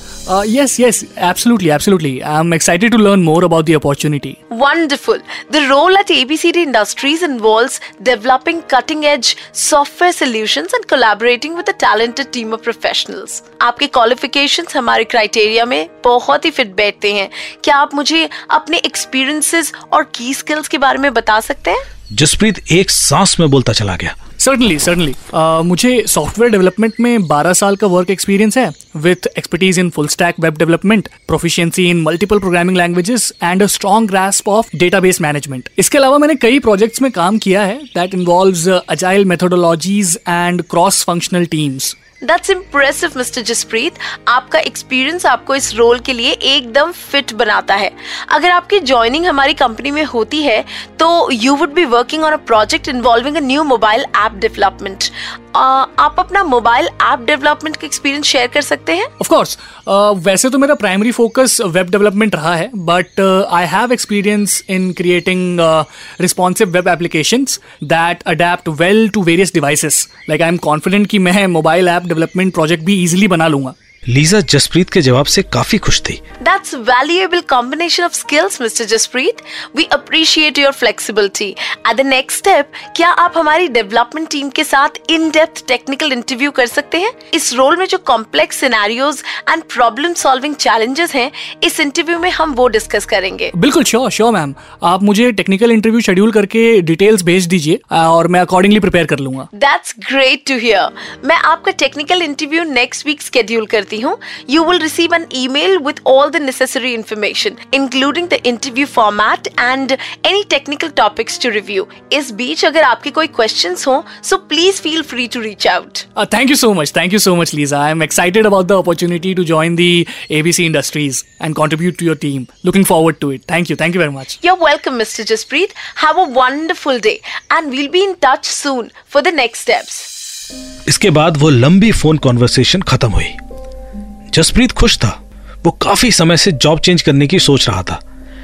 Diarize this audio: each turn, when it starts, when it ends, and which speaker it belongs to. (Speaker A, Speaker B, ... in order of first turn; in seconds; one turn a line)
Speaker A: 0.3-4.4
Speaker B: 4.5-21.8
Speaker C: 22.1-24.1
Speaker A: 24.4-42.0
Speaker B: 42.2-59.1
Speaker A: 59.2-73.7
Speaker C: 74.1-76.2
Speaker B: 76.4-93.5
Speaker A: 93.5-99.5
Speaker B: 99.5-116.0
Speaker A: 116.2-124.4
Speaker B: 124.4-130.1
Speaker C: 130.9-133.4
Speaker C: 134.3-138.0